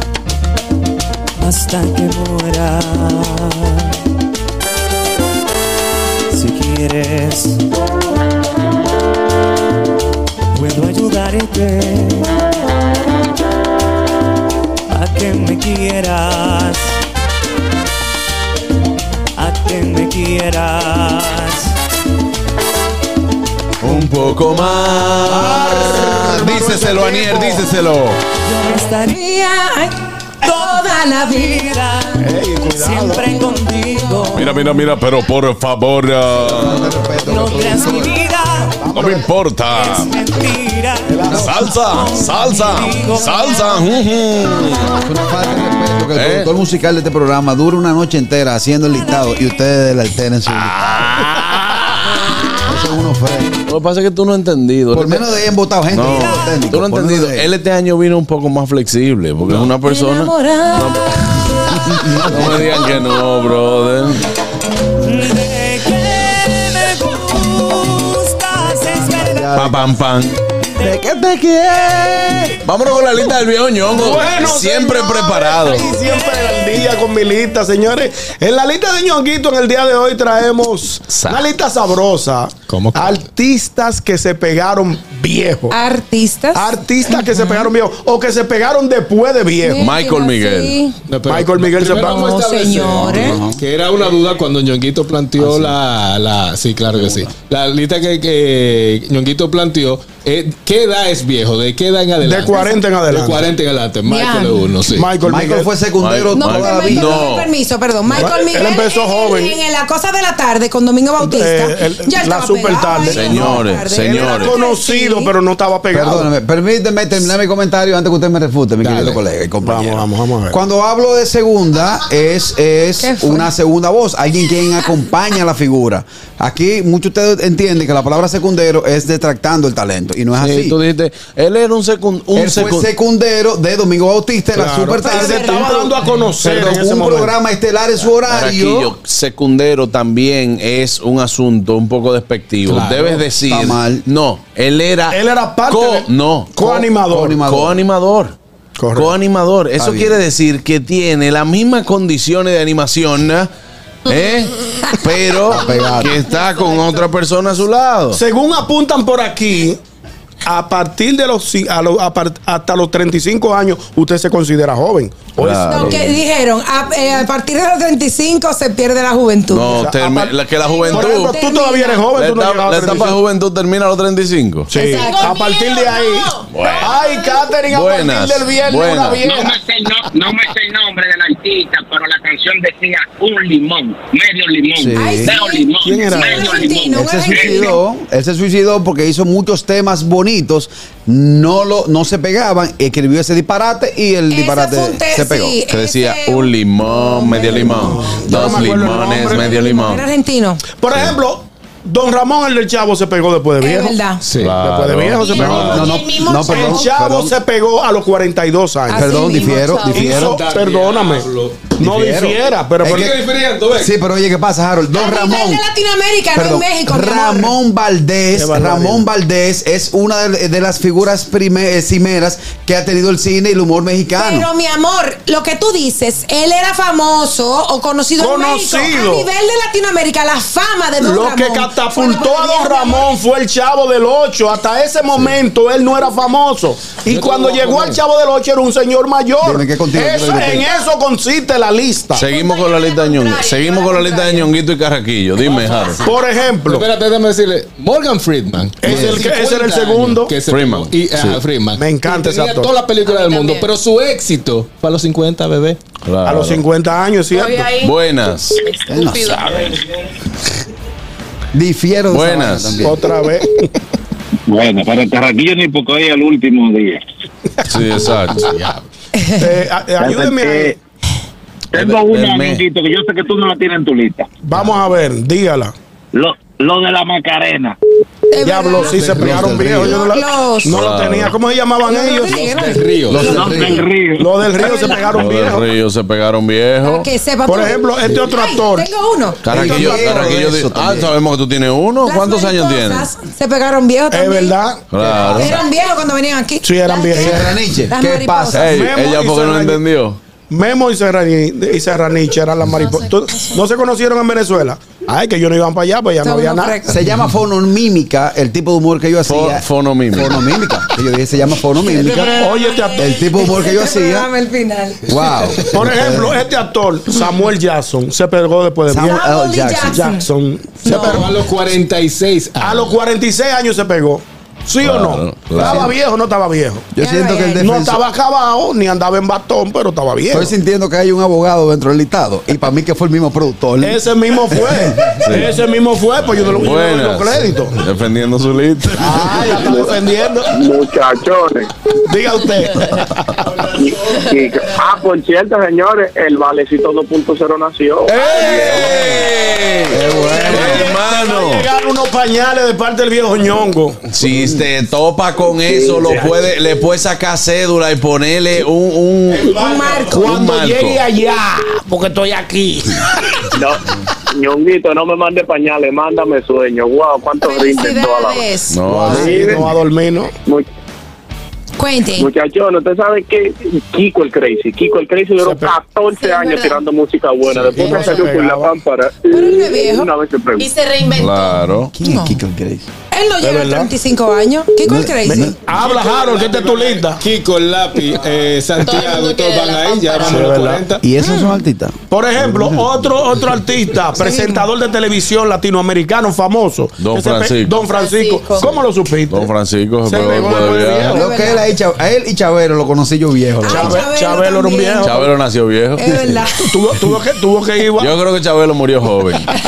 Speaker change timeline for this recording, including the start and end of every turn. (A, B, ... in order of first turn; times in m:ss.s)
0:01.4-0:03.9 A
0:06.3-0:07.6 A
0:10.5-0:12.4 A
0:14.9-0:17.0 A
0:19.4-0:21.7 A
0:23.8-0:28.2 B
0:25.3-0:26.5 C
0:25.3-0:27.6 D
0:28.4-0:29.2 A
0:29.1-0:29.9 E
0:30.4-0:30.8 A
0:30.5-0:31.8 E
0:31.4-0:34.7 A
0:32.2-0:33.2 D
0:34.3-0:37.0 B
0:36.4-0:38.2 C
0:37.2-0:38.8 A
0:38.8-0:39.2 D
0:38.9-0:40.1 B
0:39.7-0:43.9 A
0:41.1-0:41.5 D
0:41.3-0:45.0 B
0:44.9-0:51.3 C
0:46.1-0:46.5 B
0:50.7-0:51.8 B
0:52.6-0:53.6 C
0:53.7-1:04.2 B
0:54.9-0:57.5 C
0:59.8-1:01.0 E
1:01.7-1:02.9 C
1:05.0-1:09.5 A
1:08.9-1:09.8 C
1:09.5-1:10.4 B
1:10.8-1:12.5 C
1:12.6-1:15.9 B
1:13.9-1:25.8 D
1:15.9-1:16.6 A
1:22.7-1:23.2 F
1:25.7-1:27.7 E
1:26.5-1:29.8 D
1:29.6-1:31.0 E
1:29.8-1:30.8 B
1:31.1-1:45.1 F
1:31.3-1:32.2 D
1:31.9-1:33.4 E
1:33.0-1:33.6 C
1:42.2-1:43.5 D
1:42.5-1:42.8 E
1:44.1-1:44.6 E
1:44.9-1:45.7 D
1:45.2-1:47.2 C
1:46.0-1:47.5 B
1:46.4-1:55.3 E
1:48.1-1:49.6 D
1:51.2-1:56.3 D
1:53.1-1:54.6 B
1:55.9-2:10.8 C
1:58.8-1:59.2 F
1:59.6-2:00.6 D
2:03.0-2:03.5 E
2:10.4-2:12.9 B
2:12.3-2:15.8 C
2:14.5-2:17.3 D
2:15.0-2:15.9 E
2:16.4-2:18.9 C
2:18.3-2:26.8 B
2:22.6-2:23.2 F
2:23.4-2:24.0 C
2:25.1-2:27.4 D
2:27.1-2:27.8 C
2:27.4-2:28.4 B
2:28.8-2:29.1 D
2:28.9-2:33.5 B
2:29.8-2:30.2 C
2:34.0-2:38.2 B
2:35.5-2:36.2 C
2:38.1-2:39.8 D
2:40.4-2:45.9 D
2:45.4-2:46.0 B
2:45.7-2:49.8 E
2:45.8-2:46.0 C
2:49.5-2:51.4 B
2:49.7-2:50.3 D
2:50.9-2:52.1 E
2:50.9-2:53.2 D
2:52.1-2:54.7 B
2:54.7-2:59.5 D
2:54.7-2:55.4 E
2:54.8-2:57.1 G
2:56.5-2:57.0 B
2:57.7-2:59.3 B
2:59.2-3:07.7 H
3:04.8-3:05.3 C
3:04.9-3:07.8 E
3:05.8-3:06.5 D
3:06.9-3:15.6 C
3:14.3-3:20.6 E
3:15.7-3:20.0 B
3:17.6-3:19.5 D
3:20.8-3:24.0 D
3:23.6-3:24.2 E
3:24.2-3:24.6 F
3:24.4-3:26.0 B
3:24.6-3:33.1 D
3:25.3-3:26.9 G
3:25.3-3:27.3 C
3:28.9-3:30.4 C
3:28.9-3:30.1 G
3:29.0-3:29.6 E
3:29.9-3:31.8 F
3:31.8-3:33.2 C
3:32.8-3:33.9 F
3:33.7-3:35.6 C
3:34.9-3:37.5 E
3:36.3-3:44.5 C
3:38.3-3:39.1 D
3:44.2-3:53.1 E
3:48.2-3:49.3 D
3:51.0-4:02.2 D
3:57.0-3:58.0 F
3:59.4-4:00.7 C
4:02.1-4:06.0 B
4:02.2-4:04.5 G
4:05.4-4:15.8 F
4:06.0-4:06.9 D
4:08.8-4:10.3 D
4:08.8-4:09.2 C
4:10.5-4:11.4 B
4:11.8-4:12.7 D
4:13.0-4:13.7 G
4:16.0-4:16.6 B
4:16.2-4:17.8 D
4:17.3-4:17.9 G
4:17.8-4:18.6 B
4:18.6-4:19.8 G
4:18.9-4:19.6 C
4:21.5-4:23.0 C
4:22.1-4:22.8 B
4:22.8-4:23.6 D
4:24.5-4:27.0 I
4:27.6-4:28.5 B
4:28.3-4:28.8 F
4:29.4-4:30.7 D
4:30.0-4:30.7 I
4:31.7-4:34.3 I
4:31.7-4:32.6 B
4:34.4-4:35.7 D
4:36.1-4:37.8 I
4:38.3-4:40.8 E
4:38.4-4:42.4 D
4:39.0-4:39.4 F
4:39.0-4:40.0 C
4:40.6-4:41.4 B
4:41.8-4:43.4 E
4:42.3-4:43.4 F
4:43.1-4:43.9 C
4:43.1-4:44.3 I
4:44.2-4:45.7 D
4:44.6-4:45.1 E
4:45.1-4:47.1 B
4:46.8-4:49.4 E
4:47.4-4:48.9 D
4:49.4-4:53.1 B
4:49.5-4:51.1 C
4:49.5-4:50.2 D
4:52.0-4:54.6 E
4:54.1-4:55.5 D
4:54.9-4:55.6 B
4:55.0-4:55.4 C
4:55.3-4:58.7 E
4:56.6-4:57.6 D
4:57.1-4:58.9 C
4:58.5-5:00.2 B
4:58.6-4:59.8 D
5:00.5-5:06.8 D
5:02.7-5:03.6 G
5:06.2-5:07.0 E
5:06.9-5:14.3 C
5:09.2-5:10.4 B
5:11.8-5:15.1 E
5:12.3-5:13.1 D
5:15.0-5:16.4 C
5:15.7-5:19.2 D
5:18.9-5:20.1 C
5:19.0-5:20.2 E
5:19.9-5:21.3 D
5:20.8-5:21.3 E
5:20.9-5:22.9 F
5:22.6-5:26.9 D
5:24.8-5:25.9 B
5:25.5-5:25.9 C
5:26.9-5:28.0 C
5:27.0-5:27.7 E
5:27.6-5:30.5 D
5:30.3-5:35.4 C
5:33.8-5:37.8 D
5:35.2-5:35.6 B
5:36.3-5:39.5 B
5:39.0-5:40.5 D
5:39.5-5:40.0 J
5:40.5-5:41.7 J
5:42.0-5:43.3 D
5:43.7-5:49.0 J
5:48.1-5:51.7 B
5:48.2-5:49.2 D
5:49.9-5:50.9 C
5:50.2-5:54.0 D
5:54.1-5:59.6 B
5:54.2-5:54.6 C
5:55.6-5:56.4 J
5:59.4-6:00.8 D
5:59.5-6:00.3 E
6:00.1-6:01.0 B
6:04.3-6:08.5 J
6:07.4-6:08.8 E
6:08.7-6:09.4 B
6:09.0-6:10.3 D
6:09.1-6:09.5 C
6:09.2-6:09.6 J
6:11.8-6:12.3 E
6:12.2-6:20.7 J
6:15.4-6:15.8 D
6:16.2-6:16.8 G
6:17.7-6:18.7 D
6:19.3-6:20.1 E
6:20.6-6:21.6 G
6:21.1-6:21.9 B
6:21.9-6:22.9 C
6:22.0-6:22.4 E
6:23.1-6:25.6 E
6:23.4-6:23.9 D
6:24.8-6:25.6 C
6:25.2-6:27.2 D
6:27.2-6:31.0 F
6:28.8-6:30.6 G
6:30.2-6:30.8 D
6:31.0-6:32.9 C
6:31.2-6:31.5 E
6:32.1-6:39.5 D
6:34.2-6:34.7 E
6:37.0-6:37.8 B
6:37.9-6:38.6 G
6:39.3-6:41.2 B
6:40.0-6:41.2 D
6:41.0-6:44.0 C
6:41.1-6:41.7 E
6:43.6-6:45.1 E
6:43.6-6:45.3 D
6:45.0-6:46.0 B
6:46.0-6:46.7 E
6:46.6-6:48.1 D
6:48.0-6:49.5 B